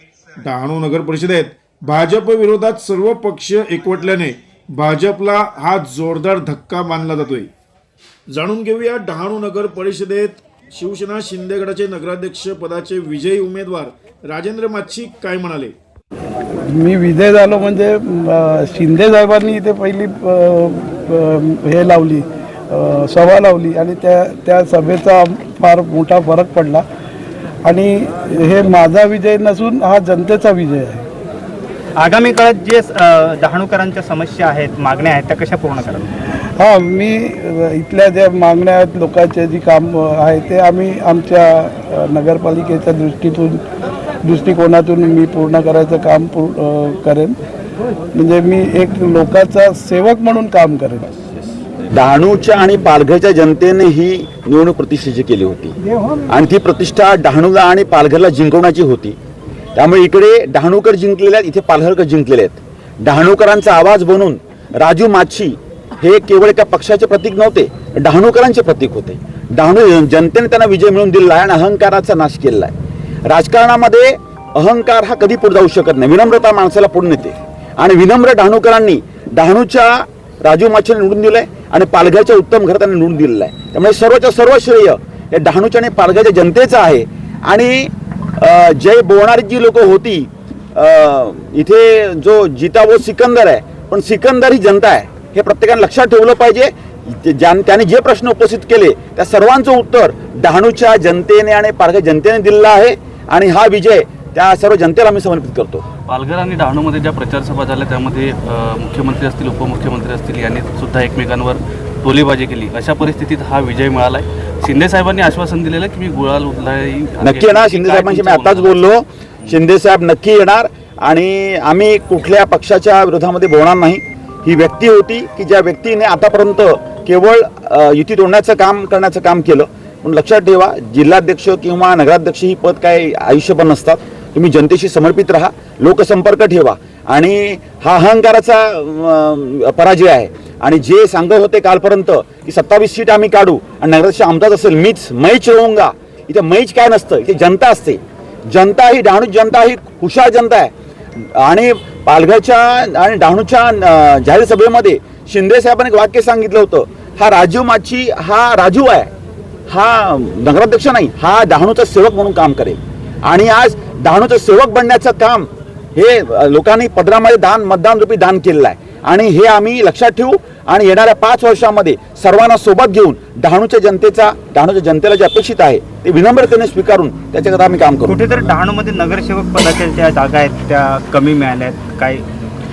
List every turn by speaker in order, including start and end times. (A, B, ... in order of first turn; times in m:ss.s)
0:00.4-0:07.5 A
0:08.3-0:15.8 A
0:16.7-0:26.8 B
0:27.6-0:31.0 B
0:32.0-0:36.1 C
0:36.6-0:43.6 B
0:44.2-0:47.4 B
0:48.1-0:51.1 B
0:51.9-0:55.8 D
0:56.3-0:59.2 D
0:59.8-1:12.7 D
1:13.2-1:45.8 D
1:46.1-1:58.8 E
1:57.2-2:39.1 D
2:39.7-2:58.2 D
2:58.1-3:02.2 C